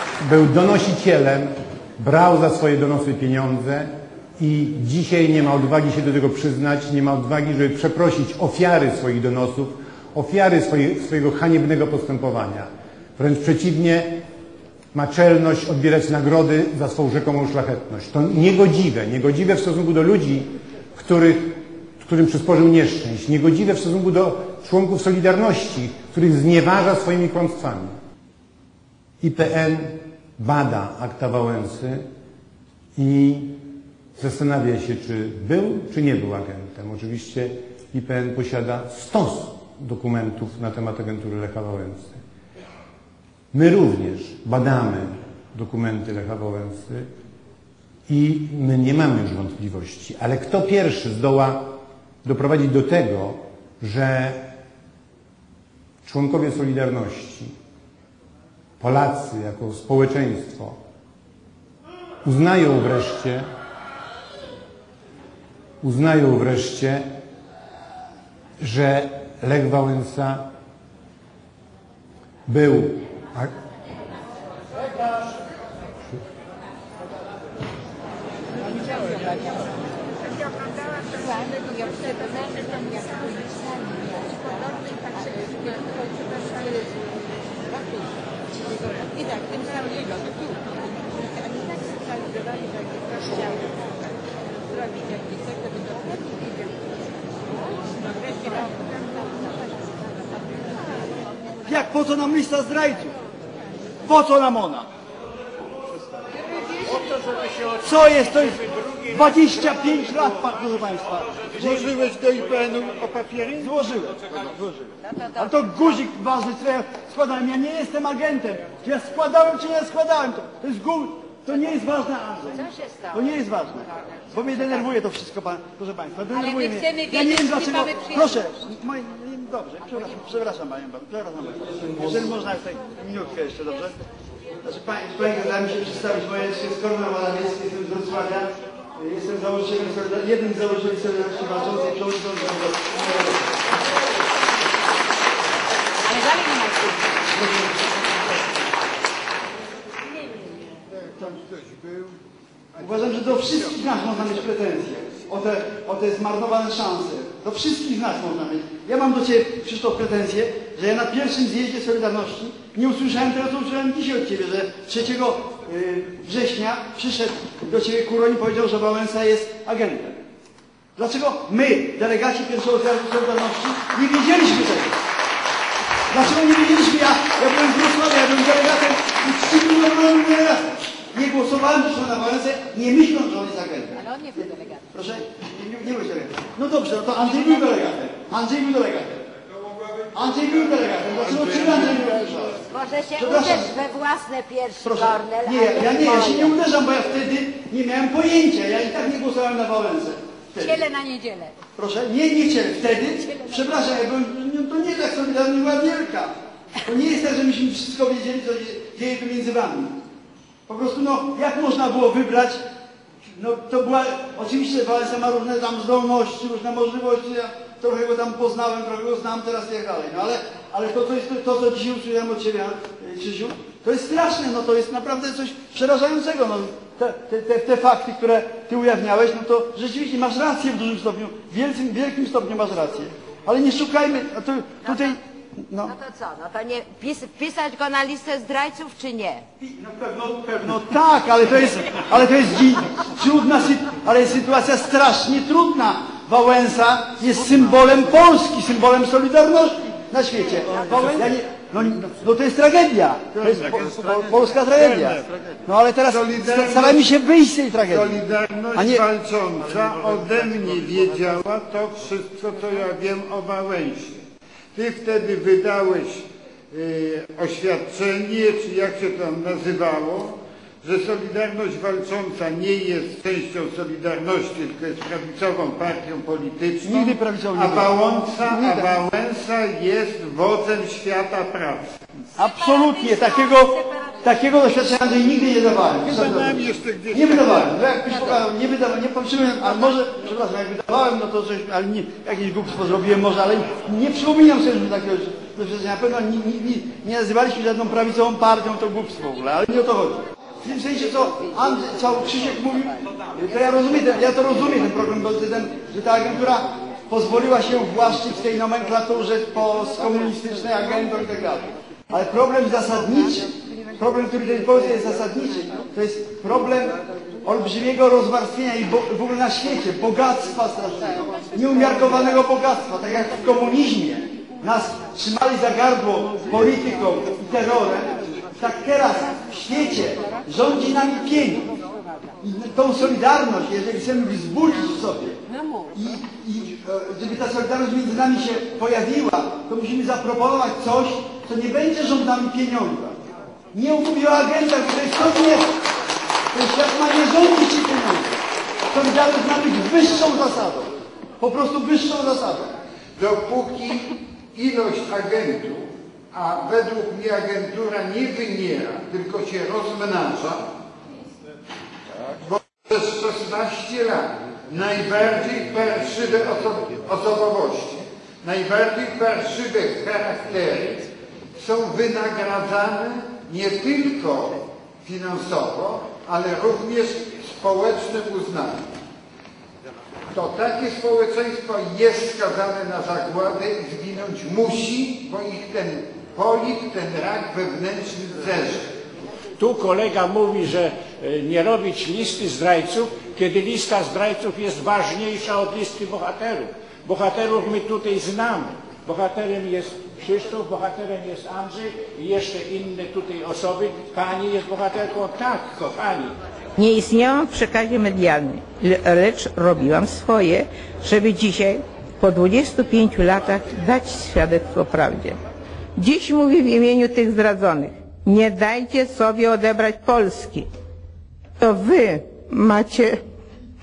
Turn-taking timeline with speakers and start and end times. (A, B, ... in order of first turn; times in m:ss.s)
0:00.2-0:14.2 A
0:14.9-0:27.9 A
0:29.2-0:32.0 A
0:33.0-0:33.6 A
0:34.2-0:42.2 A
0:43.5-0:47.1 A
0:48.1-0:54.5 A
0:56.0-0:57.6 A
0:58.8-1:00.8 A
1:02.2-1:03.5 A
1:05.8-1:07.1 A
1:08.6-1:10.4 A
1:12.5-1:13.5 A
1:41.6-1:43.2 B
1:44.0-1:44.9 B
1:47.8-1:51.9 B
1:51.6-1:53.7 C
1:53.6-2:13.9 B
2:14.6-2:23.6 B
2:27.3-2:28.1 B
2:31.6-2:32.1 C
2:32.8-2:50.2 B
2:51.0-2:55.0 B
2:56.1-3:09.2 B
3:10.1-3:13.8 B
3:14.8-3:20.9 B
3:21.8-3:30.0 B
3:30.7-3:32.6 B
3:33.2-3:55.9 B
3:56.8-3:59.4 D
3:59.6-4:18.2 B
4:13.4-4:14.1 C
4:14.8-4:15.1 C
4:16.1-4:17.0 C
4:17.9-4:24.2 C
4:18.7-4:19.0 B
4:24.8-4:37.1 C
4:36.8-4:38.9 B
4:37.8-4:41.9 C
4:42.4-5:31.7 B
4:46.0-4:47.7 C
5:32.4-5:35.4 B
5:35.9-5:43.2 B
5:43.7-5:45.7 B
5:46.5-5:48.4 B
5:48.9-5:52.7 B
5:53.2-6:00.6 C
6:02.4-6:11.0 C
6:11.6-6:18.9 C
6:20.3-6:28.9 C
6:29.6-6:46.3 E
6:46.8-6:55.4 F
6:56.0-7:00.7 F
7:01.6-7:03.2 F